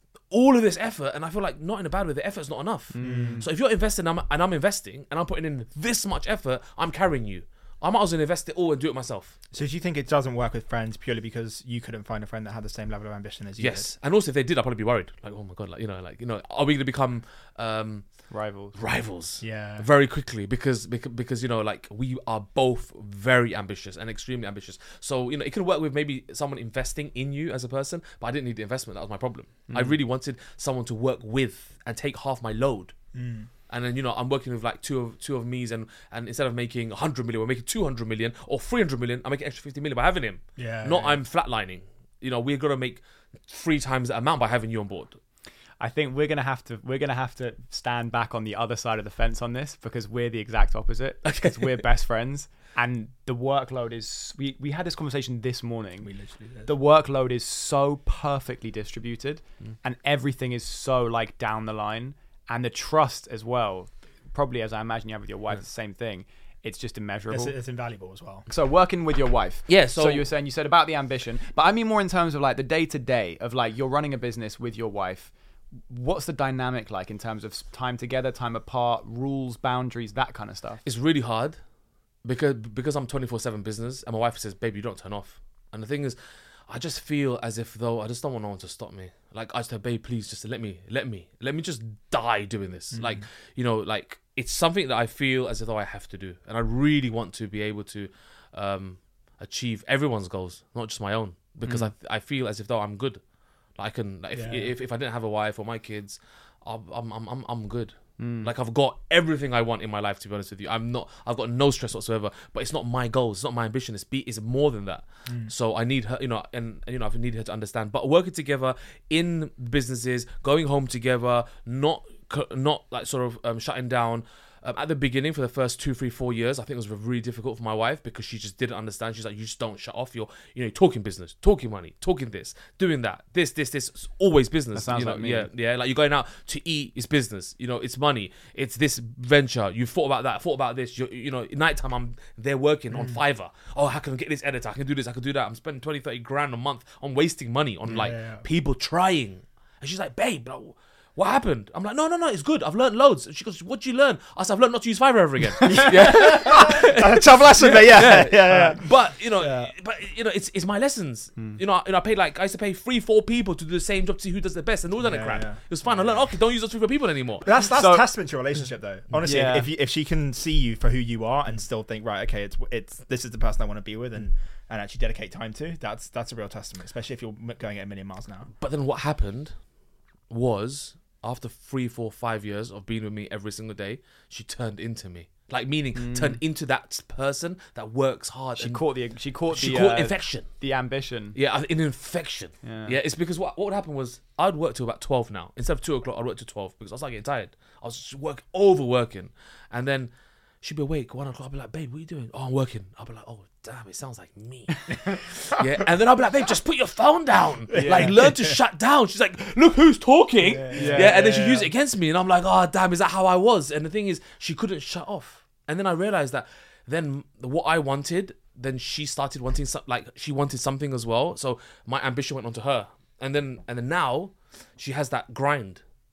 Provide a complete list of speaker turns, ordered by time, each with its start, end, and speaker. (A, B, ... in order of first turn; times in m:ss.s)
0:00.3-0:09.4 A
0:02.9-0:03.5 B
0:03.0-0:03.4 C
0:09.5-0:13.9 C
0:13.6-0:32.9 A
0:18.3-0:18.8 B
0:19.4-0:19.9 C
0:29.7-0:29.9 B
0:33.1-0:33.5 C
0:33.7-0:45.2 A
0:40.6-0:41.2 C
0:45.8-0:56.1 B
0:51.2-0:51.8 A
0:56.0-0:56.7 C
0:56.6-1:07.5 B
1:07.3-1:08.4 C
1:08.5-1:15.3 B
1:09.7-1:10.2 A
1:15.9-1:20.8 B
1:20.8-1:21.6 A
1:22.2-1:43.2 A
1:32.9-1:33.2 C
1:43.8-2:47.5 A
1:44.3-1:44.7 C
1:48.2-1:48.5 B
1:55.3-1:55.5 C
2:14.7-2:15.5 B
2:22.9-2:23.2 C
2:27.9-2:28.4 C
2:35.6-2:39.7 C
2:45.0-2:46.3 C
2:47.4-2:58.5 C
2:47.7-2:48.1 B
2:49.2-2:49.7 B
2:58.6-2:59.6 A
3:00.3-3:08.9 A
3:05.9-3:06.4 B
3:08.6-3:11.4 B
3:09.5-3:10.4 A
3:11.3-3:45.8 A
3:12.6-3:13.0 B
3:27.7-3:28.6 C
3:27.7-3:28.1 B
3:30.4-3:31.7 C
3:30.7-3:31.2 B